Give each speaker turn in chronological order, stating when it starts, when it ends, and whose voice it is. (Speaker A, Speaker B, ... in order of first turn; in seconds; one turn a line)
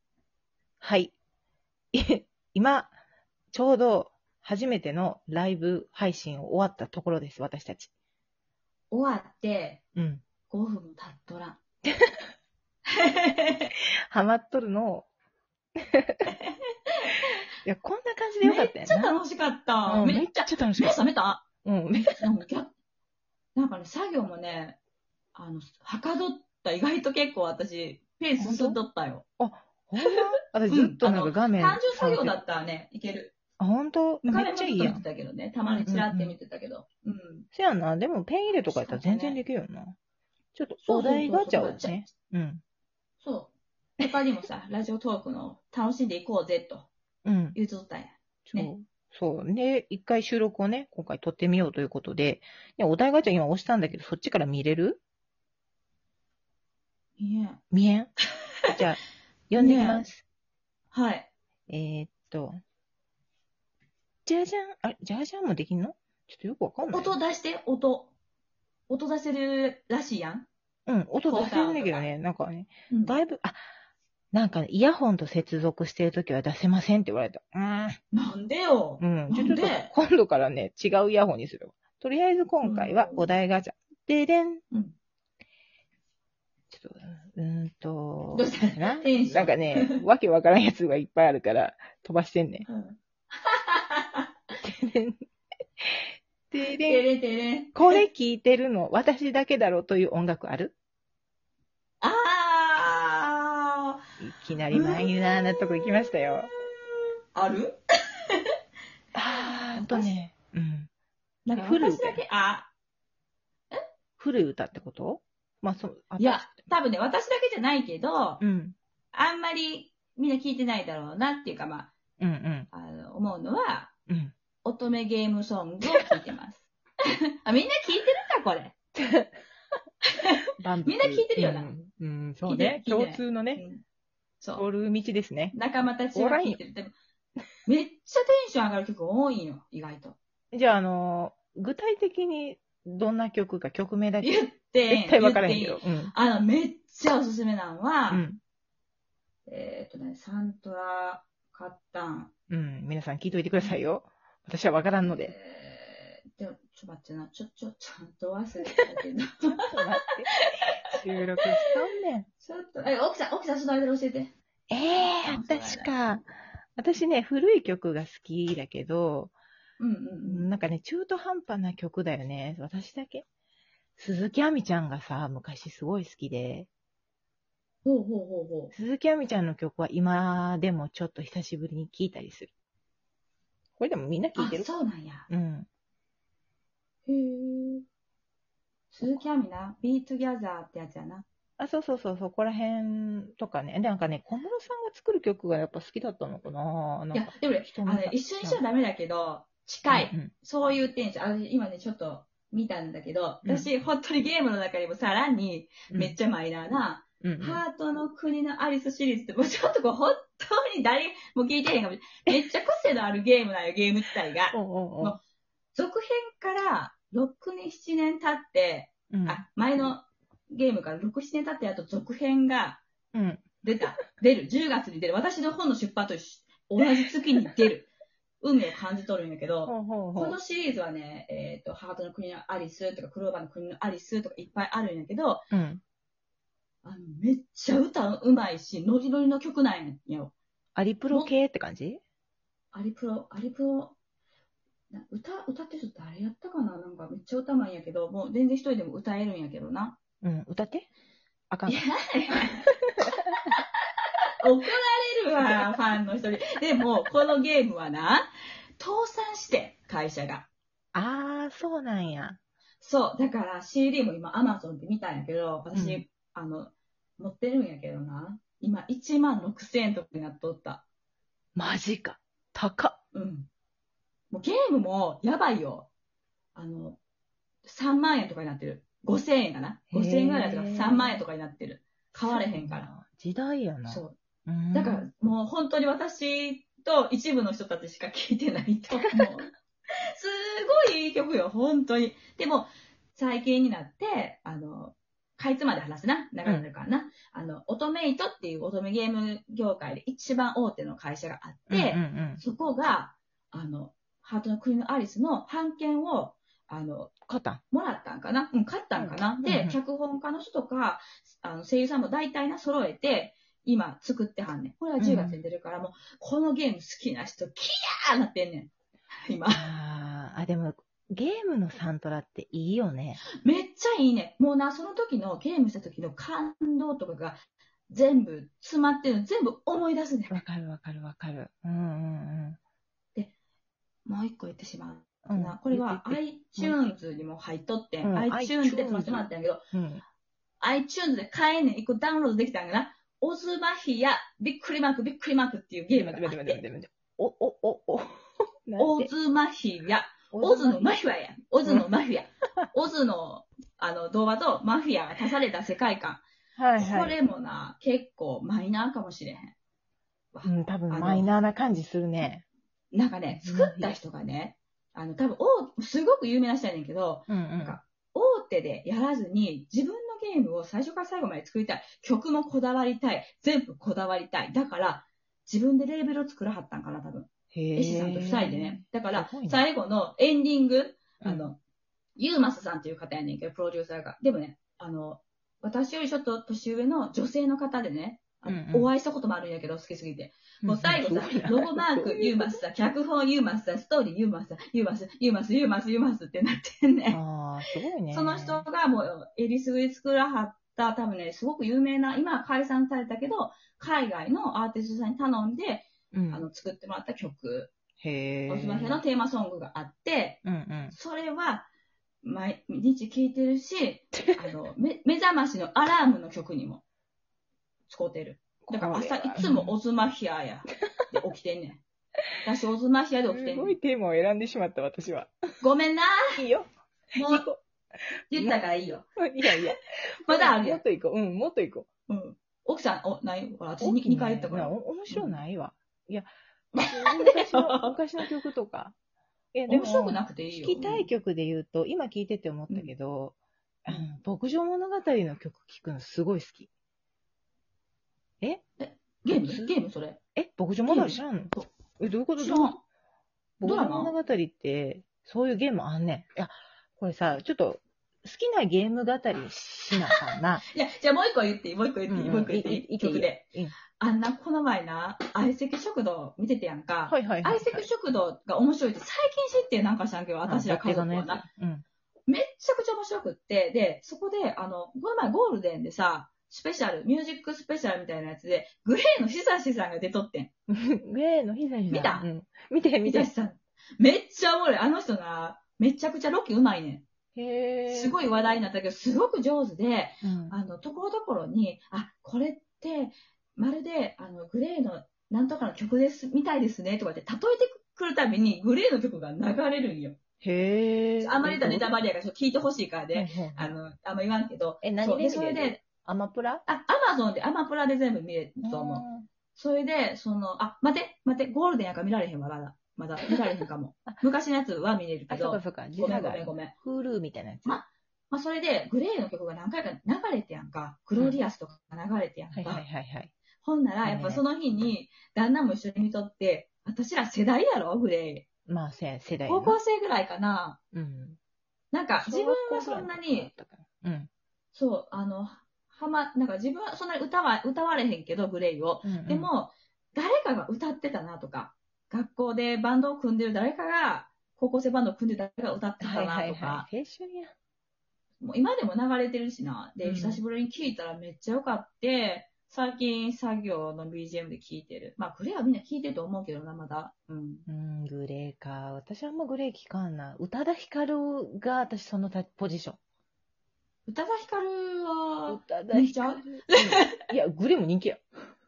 Speaker A: 0.8-1.1
Speaker A: 1.9-2.9
Speaker A: 3.5-7.9
Speaker B: 8.9-9.8
Speaker A: 10.0-10.2
Speaker B: 10.5-11.6
Speaker A: 11.8-12.2
Speaker B: 12.9-13.7
Speaker A: 14.1-15.1
Speaker A: 15.8-16.3
Speaker B: 16.3-17.4
Speaker A: 17.6-19.2
Speaker B: 18.4-21.4
Speaker A: 19.9-21.0
Speaker A: 21.6-22.3
Speaker B: 22.1-22.7
Speaker B: 23.6-24.8
Speaker B: 25.4-29.2
Speaker A: 28.4-28.8
Speaker A: 29.4-32.4
Speaker B: 30.7-33.3
Speaker A: 33.6-35.0
Speaker B: 34.2-37.5
Speaker A: 35.7-36.4
Speaker A: 37.5-40.0
Speaker B: 38.5-39.4
Speaker A: 40.5-42.6
Speaker B: 40.9-42.0
Speaker B: 43.2-46.9
Speaker A: 47.2-47.6
Speaker B: 47.5-48.7
Speaker A: 48.5-55.0
Speaker B: 57.2-57.6
Speaker A: 57.7-58.1
Speaker A: 58.7-60.2
Speaker B: 59.6-60.1
Speaker B: 60.9-61.3
Speaker A: 61.7-62.6
Speaker A: 64.3-67.2
Speaker B: 66.8-68.1
Speaker B: 68.9-70.5
Speaker A: 70.9-73.6
Speaker B: 71.3-72.1
Speaker B: 72.9-73.2
Speaker A: 74.3-78.0
Speaker B: 78.1-79.9
Speaker A: 79.0-84.6
Speaker B: 82.6-83.3
Speaker A: 86.7-92.7
Speaker B: 88.3-90.0
Speaker B: 92.7-94.3
Speaker A: 94.6-95.2
Speaker A: 95.8-97.1
Speaker B: 96.7-98.0
Speaker A: 97.7-100.8
Speaker B: 102.0-104.0
Speaker A: 104.2-106.5
Speaker B: 104.7-105.1
Speaker B: 107.3-107.8
Speaker A: 109.2-110.9
Speaker B: 109.3-110.2
Speaker B: 111.5-112.7
Speaker A: 111.5-112.2
Speaker A: 114.2-116.7
Speaker B: 116.2-118.4
Speaker A: 118.4-118.8
Speaker B: 119.1-121.9
Speaker A: 122.2-122.7
Speaker B: 122.7-123.9
Speaker A: 124.1-124.3
Speaker B: 124.6-126.7
Speaker B: 127.4-128.8
Speaker A: 129.0-129.3
Speaker B: 130.1-131.7
Speaker A: 130.6-133.6
Speaker B: 132.4-133.8
Speaker A: 134.6-135.6
Speaker B: 135.5-136.9
Speaker A: 136.1-136.6
Speaker B: 137.7-140.2
Speaker A: 140.5-146.1
Speaker B: 144.2-148.2
Speaker A: 148.1-148.4
Speaker B: 149.5-152.3
Speaker A: 152.5-155.3
Speaker B: 155.0-159.6
Speaker A: 159.6-162.3
Speaker B: 161.4-161.7
Speaker B: 162.4-164.3
Speaker A: 164.7-169.3
Speaker B: 165.2-165.9
Speaker B: 169.8-170.5
Speaker A: 170.2-173.2
Speaker A: 174.0-176.7
Speaker B: 177.8-178.7
Speaker A: 178.7-182.5
Speaker A: 183.8-184.7
Speaker B: 184.3-185.3
Speaker A: 185.3-185.7
Speaker B: 187.1-187.8
Speaker B: 188.9-191.3
Speaker A: 191.6-198.6
Speaker B: 197.1-215.2
Speaker A: 199.9-200.3
Speaker A: 203.4-203.7
Speaker A: 205.9-206.2
Speaker A: 207.2-207.6
Speaker A: 214.5-215.2
Speaker B: 215.7-222.8
Speaker A: 219.1-219.4
Speaker A: 223.1-224.0
Speaker B: 223.6-227.9
Speaker B: 228.4-235.5
Speaker A: 229.7-230.4
Speaker A: 235.5-235.8
Speaker B: 236.8-240.3
Speaker A: 240.8-242.0
Speaker B: 242.7-244.0
Speaker B: 244.9-250.0
Speaker A: 250.2-250.9
Speaker A: 251.5-251.8
Speaker B: 251.7-252.6
Speaker A: 252.4-252.7
Speaker B: 254.4-260.5
Speaker A: 260.9-262.4
Speaker B: 262.8-270.8
Speaker A: 265.7-266.0
Speaker A: 271.6-273.0
Speaker B: 273.1-273.5
Speaker B: 274.3-275.9
Speaker B: 276.6-277.0
Speaker B: 277.6-282.9
Speaker A: 279.9-281.2
Speaker A: 282.2-285.1
Speaker B: 283.9-284.1
Speaker B: 284.7-289.5
Speaker B: 290.2-307.1
Speaker A: 301.7-302.4
Speaker A: 307.3-307.6
Speaker B: 307.7-318.7
Speaker A: 309.0-309.8
Speaker A: 315.0-315.4
Speaker B: 319.3-319.7
Speaker A: 319.5-323.2
Speaker B: 323.4-330.4
Speaker A: 330.3-332.6
Speaker B: 334.1-339.6
Speaker A: 335.2-336.8
Speaker A: 338.0-340.0
Speaker B: 340.6-346.6
Speaker A: 345.9-349.1
Speaker B: 348.8-356.2
Speaker A: 350.3-351.0
Speaker A: 356.6-357.2
Speaker B: 356.8-359.6
Speaker B: 360.3-361.3
Speaker A: 360.4-362.4
Speaker B: 362.9-381.6
Speaker A: 363.4-364.0
Speaker A: 367.3-367.8
Speaker A: 377.5-379.6
Speaker A: 381.2-381.5
Speaker B: 382.2-397.2
Speaker A: 388.5-388.9
Speaker A: 390.6-392.6
Speaker A: 397.1-398.7
Speaker B: 398.1-407.7
Speaker A: 406.1-406.5
Speaker A: 408.0-409.0
Speaker B: 408.5-411.7
Speaker A: 410.4-411.0
Speaker B: 412.2-416.8
Speaker A: 414.2-414.5
Speaker B: 417.9-421.8
Speaker A: 418.6-419.8
Speaker B: 422.4-423.8
Speaker A: 423.3-425.3
Speaker B: 425.6-426.2
Speaker A: 426.3-426.7
Speaker B: 427.1-427.5
Speaker A: 427.2-427.6
Speaker B: 428.3-429.7
Speaker A: 429.2-431.9
Speaker B: 430.3-430.8
Speaker B: 432.1-435.4
Speaker A: 433.8-439.0
Speaker B: 436.7-438.0
Speaker A: 439.5-446.7
Speaker B: 439.7-441.1
Speaker B: 448.8-450.2
Speaker A: 449.3-449.8
Speaker A: 450.4-452.8
Speaker B: 450.8-451.7
Speaker B: 452.4-452.8
Speaker A: 453.6-460.6
Speaker B: 453.6-454.1
Speaker B: 460.7-471.4
Speaker A: 462.1-463.8
Speaker A: 467.1-467.9
Speaker A: 470.4-471.9
Speaker B: 472.3-480.5
Speaker A: 480.7-483.3
Speaker B: 481.9-482.3
Speaker B: 483.1-487.1
Speaker A: 487.4-488.2
Speaker B: 487.9-500.2
Speaker A: 490.2-490.6
Speaker A: 500.4-501.9
Speaker B: 501.2-505.8
Speaker A: 503.1-503.7
Speaker A: 504.8-506.6
Speaker B: 506.7-516.7
Speaker A: 508.6-509.3
Speaker A: 513.6-514.1
Speaker A: 515.3-517.8
Speaker B: 517.6-522.8
Speaker A: 522.5-523.3
Speaker B: 523.6-528.5
Speaker A: 524.0-524.4
Speaker A: 528.7-529.8
Speaker B: 529.5-530.8
Speaker A: 530.9-531.4
Speaker B: 531.9-533.5
Speaker A: 532.2-534.3
Speaker B: 534.7-546.9
Speaker A: 539.0-539.5
Speaker A: 546.0-547.5
Speaker B: 548.4-557.7
Speaker A: 550.0-550.4
Speaker A: 557.7-563.0
Speaker B: 564.1-567.2
Speaker A: 565.5-568.5